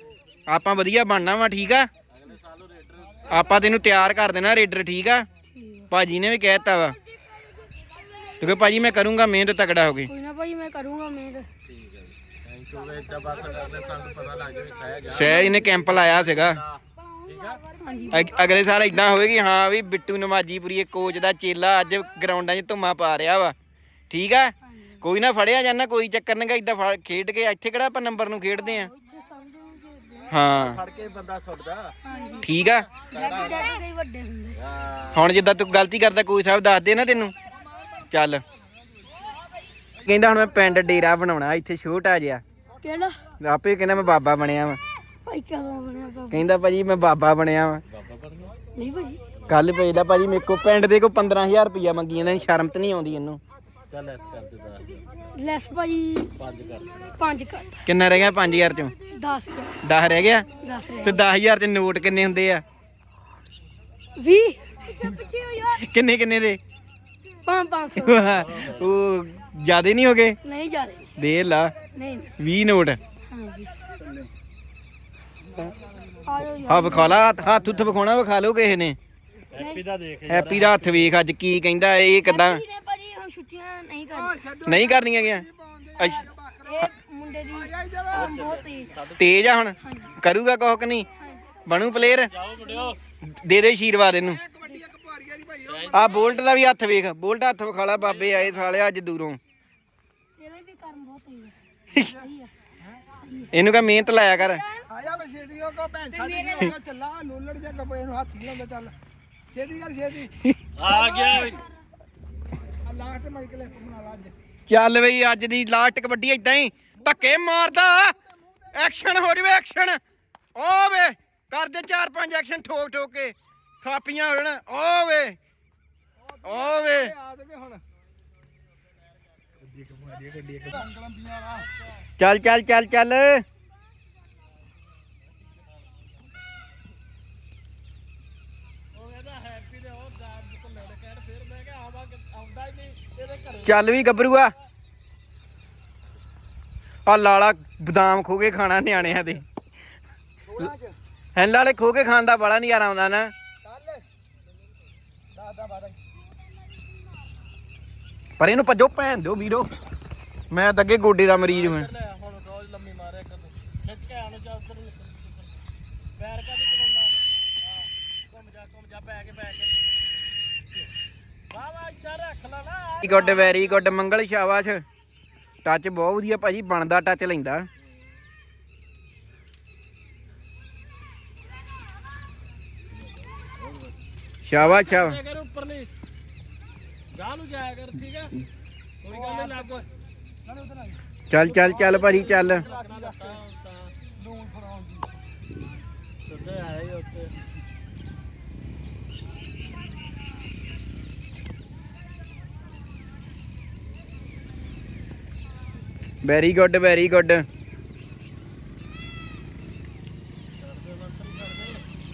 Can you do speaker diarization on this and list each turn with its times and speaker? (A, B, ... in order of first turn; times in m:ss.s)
0:00.5-0:01.9 A
0:02.1-0:03.3 B
0:03.3-0:05.2 A
0:05.5-0:05.8 C
0:05.9-0:07.0 A
0:08.4-0:10.1 A
0:10.1-0:11.5 C
0:11.6-0:17.6 B
0:15.1-0:16.6 A
0:15.2-0:15.7 C
0:17.8-0:18.5 C
0:18.1-0:23.5 A
0:24.1-0:28.9 A
0:28.8-0:30.3 C
0:30.3-0:30.8 A
0:30.5-0:32.0 B
0:32.0-0:32.5 C
0:32.4-0:32.9 A
0:33.0-0:33.7 B
0:33.1-0:34.6 C
0:34.6-0:35.2 B
0:35.1-0:37.3 A
0:38.1-0:38.4 A
0:40.0-0:42.4 A
0:42.8-0:43.1 C
0:43.4-0:44.8 A
0:45.2-0:46.5 C
0:46.3-0:47.8 A
0:47.9-0:48.5 B
0:48.8-0:49.2 C
0:49.5-0:53.4 A
0:53.9-0:55.0 B
0:55.4-0:56.3 C
0:56.4-0:57.0 B
0:57.2-0:57.8 C
0:57.8-0:58.9 A
0:59.1-0:59.8 C
0:59.8-1:00.5 A
1:00.6-1:01.2 C
1:01.0-1:02.6 A
1:04.2-1:05.7 C
1:05.8-1:06.6 A
1:07.4-1:08.4 C
1:08.0-1:10.4 A
1:08.4-1:08.8 B
1:10.4-1:11.1 C
1:11.2-1:11.7 A
1:12.0-1:12.3 C
1:12.4-1:13.0 A
1:13.3-1:13.7 C
1:16.2-1:17.2 C
1:16.7-1:19.0 A
1:19.5-1:21.1 B
1:19.6-1:19.8 C
1:20.3-1:22.6 A
1:22.2-1:24.6 C
1:24.6-1:26.3 A
1:25.6-1:26.8 D
1:26.6-1:29.0 C
1:27.7-1:28.1 D
1:28.1-1:29.4 B
1:29.2-1:31.1 A
1:29.8-1:30.1 C
1:31.2-1:31.6 C
1:31.6-1:32.3 A
1:31.9-1:33.0 B
1:32.6-1:33.0 C
1:33.2-1:34.4 A
1:34.5-1:35.6 D
1:35.6-1:36.4 B
1:35.9-1:39.4 A
1:38.1-1:38.6 B
1:40.4-1:41.5 C
1:42.1-1:42.4 C
1:43.2-1:43.5 C
1:43.5-1:44.6 A
1:44.8-1:45.0 C
1:44.9-1:48.9 D
1:46.1-1:46.6 C
1:49.5-1:50.3 D
1:50.8-1:51.6 B
1:50.8-1:51.6 C
1:52.9-1:54.3 D
1:54.7-1:58.1 A
1:58.7-2:00.0 A
2:00.5-2:05.4 A
2:06.4-2:07.2 A
2:07.2-2:07.8 D
2:10.3-2:11.4 D
2:12.2-2:13.4 A
2:18.9-2:23.8 B
2:23.6-2:24.5 A
2:27.1-2:29.4 A
2:31.4-2:33.3 A
2:35.6-2:35.9 D
2:38.4-2:39.7 A
2:40.5-2:41.9 A
2:41.5-2:45.6 B
2:46.2-2:47.2 B
2:48.3-2:49.7 B
2:51.5-2:53.9 B
2:53.0-2:54.8 A
2:55.6-2:57.7 A
3:03.4-3:03.9 B
3:04.4-3:05.2 A
3:04.5-3:05.9 B
3:07.1-3:08.3 B
3:09.0-3:09.9 B
3:11.3-3:12.7 A
3:11.4-3:13.9 B
3:14.4-3:14.8 D
3:16.2-3:17.3 B
3:26.2-3:27.4 A
3:30.6-3:31.8 B